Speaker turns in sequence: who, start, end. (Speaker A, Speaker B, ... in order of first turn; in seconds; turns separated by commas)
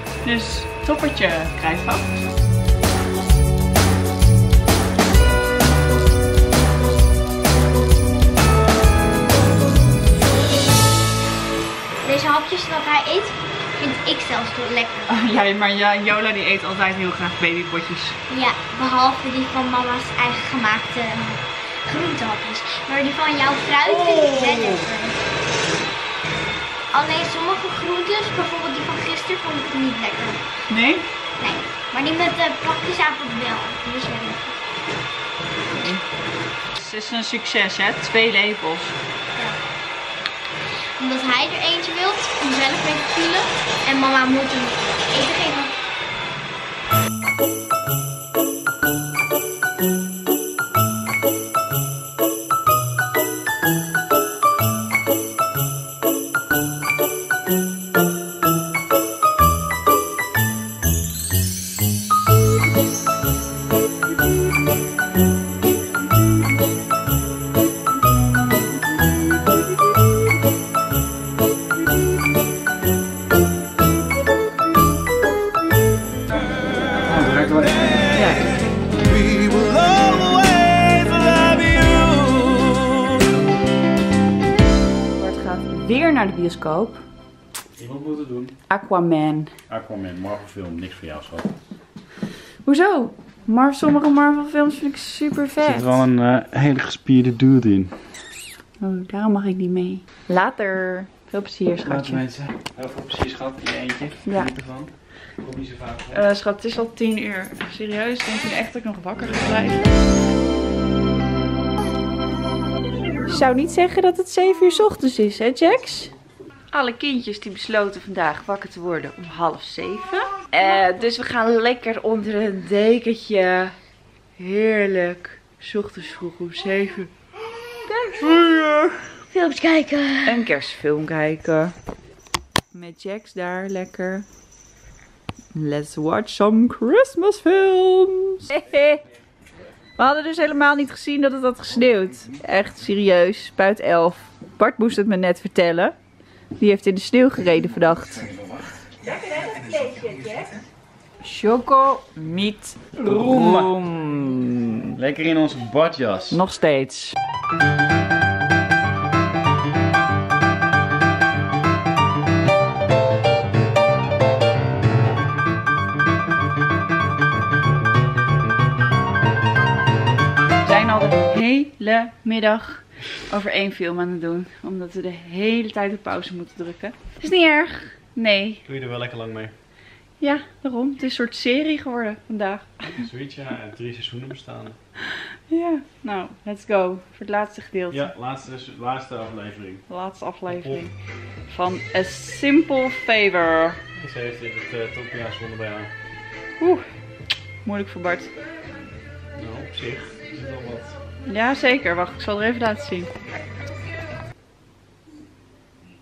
Speaker A: 0.2-2.2, Speaker B: 12.0-15.1, Speaker A: 15.1-18.2, Speaker B: 18.3-25.2, Speaker A: 23.8-24.9, Speaker B: 26.9-30.4, Speaker A: 30.7-31.1, Speaker B: 31.4-34.6, Speaker A: 35.7-36.0, Speaker A: 36.7-39.0, Speaker B: 41.0-45.7, Speaker C: 77.0-78.2, Speaker A: 78.1-78.6, Speaker A: 85.1-87.0, Speaker C: 87.8-88.5, Speaker A: 88.7-89.5, Speaker C: 89.7-91.5, Speaker A: 92.6-96.0, Speaker C: 95.6-98.0, Speaker A: 98.8-102.2, Speaker C: 101.8-106.2, Speaker A: 104.2-104.5, Speaker A: 106.1-109.9, Speaker A: 113.3-116.1, Speaker A: 116.7-123.8, Speaker A: 124.4-127.1, Speaker B: 127.8-128.3, Speaker A: 128.2-129.0, Speaker B: 129.3-130.4, Speaker A: 130.2-131.7, Speaker A: 132.7-134.3, Speaker A: 135.5-139.0, Speaker A: 140.0-145.9, Speaker A: 146.6-148.3, Speaker A: 149.0-150.5, Speaker A: 151.2-155.0, Speaker C: 153.0-153.8, Speaker C: 155.0-156.4, Speaker A: 156.3-157.1, Speaker A: 170.6-178.6, Speaker C: 178.7-179.5, Speaker A: 180.2-183.0, Speaker C: 182.9-184.8, Speaker A: 185.5-188.1, Speaker C: 187.9-189.8, Speaker A: 189.9-190.9, Speaker C: 190.5-190.8, Speaker A: 191.5-193.8, Speaker C: 193.9-195.9, Speaker A: 196.6-196.8, Speaker A: 197.6-198.3, Speaker C: 199.4-200.9, Speaker A: 201.2-203.1